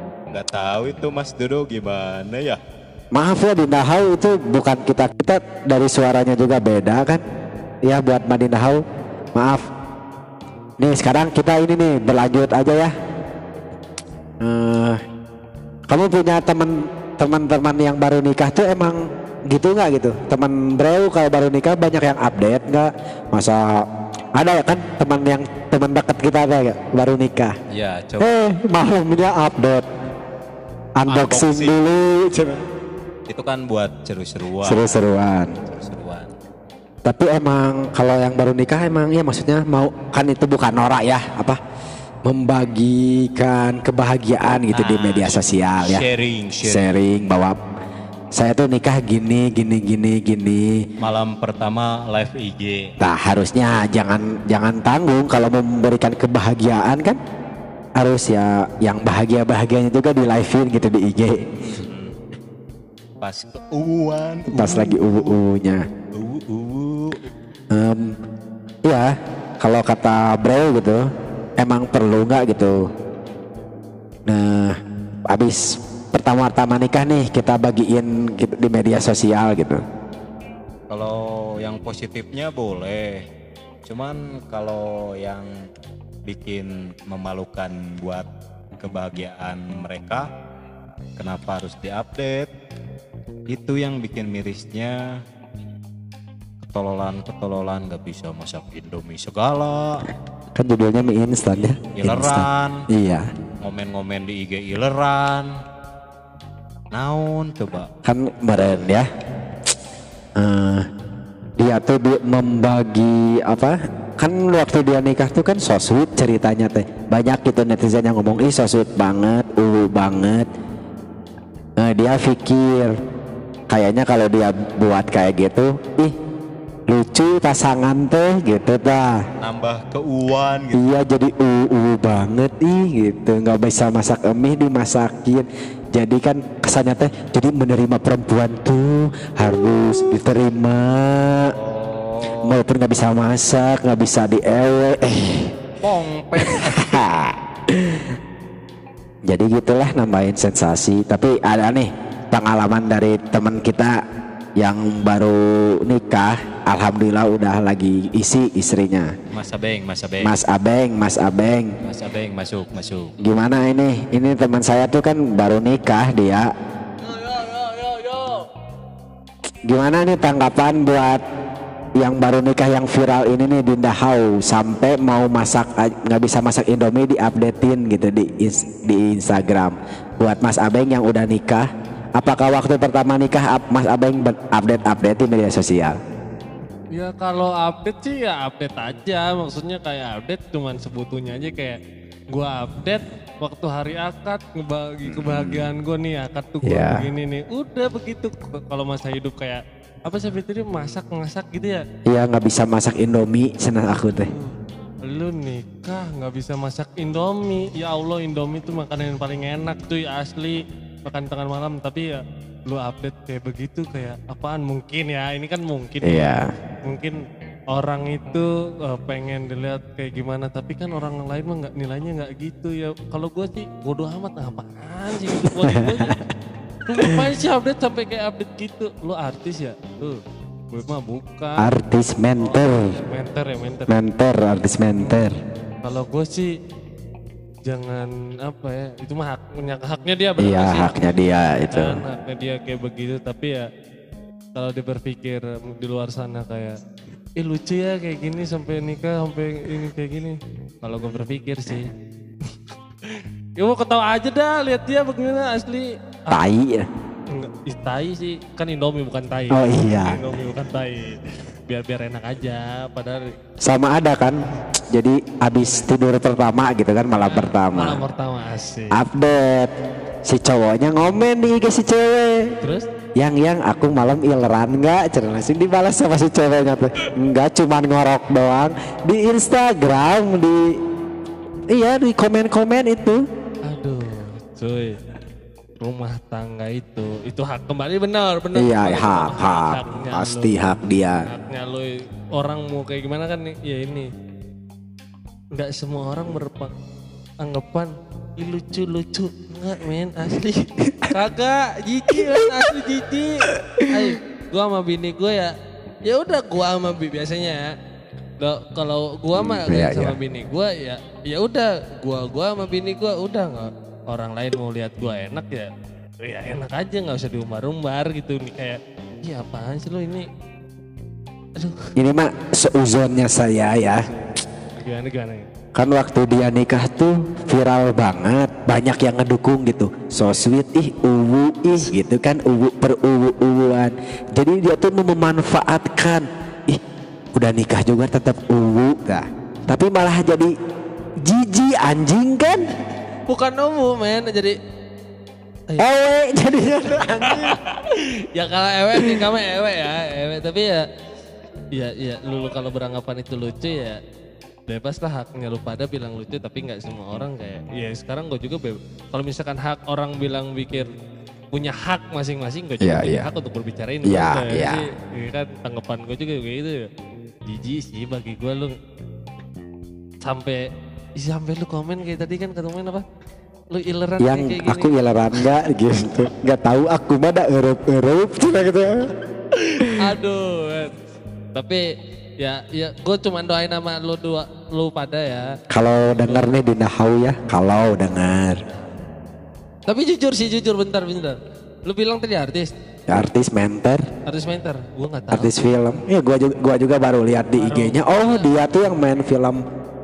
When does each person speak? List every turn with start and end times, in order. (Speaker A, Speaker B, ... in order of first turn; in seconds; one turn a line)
Speaker A: 0.3-2.6
Speaker B: 3.1-7.2
Speaker B: 7.8-8.8
Speaker B: 9.3-9.6
Speaker B: 10.8-12.9
Speaker B: 14.4-15.0
Speaker B: 15.9-23.8
Speaker B: 24.4-27.5
Speaker A: 27.7-28.4
Speaker B: 28.2-29.9
Speaker B: 31.0-32.6
Speaker A: 31.1-31.8
Speaker A: 33.3-35.1
Speaker B: 34.6-35.5
Speaker A: 35.6-36.3
Speaker B: 37.0-41.6
Speaker B: 42.2-46.0
Speaker A: 44.5-47.0
Speaker B: 46.6-47.6
Speaker B: 48.4-50.8
Speaker A: 51.0-52.9
Speaker B: 53.0-57.2
Speaker B: 58.0-61.5
Speaker A: 61.6-62.1
Speaker A: 63.2-65.4
Speaker B: 64.5-65.8
Speaker A: 66.1-67.2
Speaker B: 67.7-68.2
Speaker B: 68.8-71.0
Speaker B: 71.6-72.8
Speaker B: 74.2-74.8
Speaker B: 75.3-79.8
Speaker A: 80.9-83.2
Speaker A: 83.8-85.5
Speaker A: 86.2-88.3
Speaker A: 88.8-90.3
Speaker A: 91.2-92.5
Speaker A: 93.5-95.0
Speaker A: 96.6-100.1
Speaker B: 100.5-103.2
Speaker A: 101.6-102.8
Speaker A: 103.6-105.5
Speaker A: 106.9-107.9
Speaker B: 108.0-109.1
Speaker B: 110.4-110.9
Speaker B: 111.6-120.5
Speaker B: 121.8-122.9
Speaker B: 123.7-126.1
Speaker B: 126.9-129.2
Speaker A: 129.4-130.9
Speaker B: 130.7-141.5
Speaker A: 141.5-142.6
Speaker B: 142.4-145.5
Speaker A: 145.8-147.1
Speaker B: 146.4-148.1
Speaker B: 149.2-153.9
Speaker B: 154.6-159.1
Speaker A: 159.3-160.3
Speaker B: 160.2-161.7
Speaker A: 161.8-163.1
Speaker B: 163.2-166.5
Speaker C: 167.0-168.4
Speaker B: 169.7-171.2
Speaker B: 171.9-185.9
Speaker C: 186.9-191.8
Speaker C: 192.3-201.8
Speaker B: 195.0-195.7
Speaker B: 196.6-197.1
Speaker B: 202.1-204.3
Speaker C: 204.2-204.5
Speaker C: 205.1-216.3
Speaker B: 216.0-216.5
Speaker C: 216.8-217.2
Speaker C: 217.7-226.2
Speaker B: 225.4-226.2
Speaker C: 226.9-230.2
Speaker C: 230.7-231.7
Speaker B: 231.6-232.9
Speaker C: 232.4-234.0
Speaker B: 233.9-235.4
Speaker C: 234.9-236.5
Speaker C: 237.7-241.0
Speaker B: 240.4-242.0
Speaker C: 241.7-243.7
Speaker C: 244.5-246.8
Speaker C: 247.4-251.9
Speaker C: 253.0-256.4
Speaker B: 256.3-256.9
Speaker C: 257.3-263.3
Speaker B: 259.5-260.2
Speaker B: 263.6-268.0
Speaker C: 267.2-268.9
Speaker B: 268.9-269.7
Speaker B: 270.2-272.5
Speaker B: 273.1-280.7
Speaker B: 281.7-283.2
Speaker C: 283.7-285.0
Speaker C: 285.8-290.7
Speaker B: 288.5-291.3
Speaker C: 291.2-294.1
Speaker C: 295.5-296.7
Speaker C: 297.4-305.5
Speaker B: 302.1-302.6
Speaker B: 303.5-304.1
Speaker C: 306.1-307.7
Speaker C: 308.4-315.7
Speaker B: 309.3-310.2
Speaker C: 316.2-320.2
Speaker C: 321.6-321.9
Speaker B: 322.0-324.0
Speaker C: 324.8-325.4
Speaker B: 325.7-336.8
Speaker B: 337.3-340.5
Speaker B: 341.2-342.6
Speaker C: 343.3-344.5
Speaker B: 345.8-347.6
Speaker C: 347.6-350.8
Speaker C: 351.7-354.0
Speaker C: 354.7-360.9
Speaker C: 361.5-366.9
Speaker B: 362.8-363.3
Speaker B: 364.0-364.8
Speaker C: 367.4-368.7
Speaker C: 370.2-370.6
Speaker C: 371.2-373.0
Speaker C: 373.7-374.9
Speaker B: 374.2-379.1
Speaker C: 380.0-380.9
Speaker C: 381.5-381.8
Speaker C: 382.4-385.5
Speaker B: 385.7-388.6
Speaker C: 386.1-386.5
Speaker C: 389.9-392.7
Speaker B: 393.1-394.0
Speaker C: 394.2-395.5
Speaker B: 395.3-399.6
Speaker C: 397.6-398.5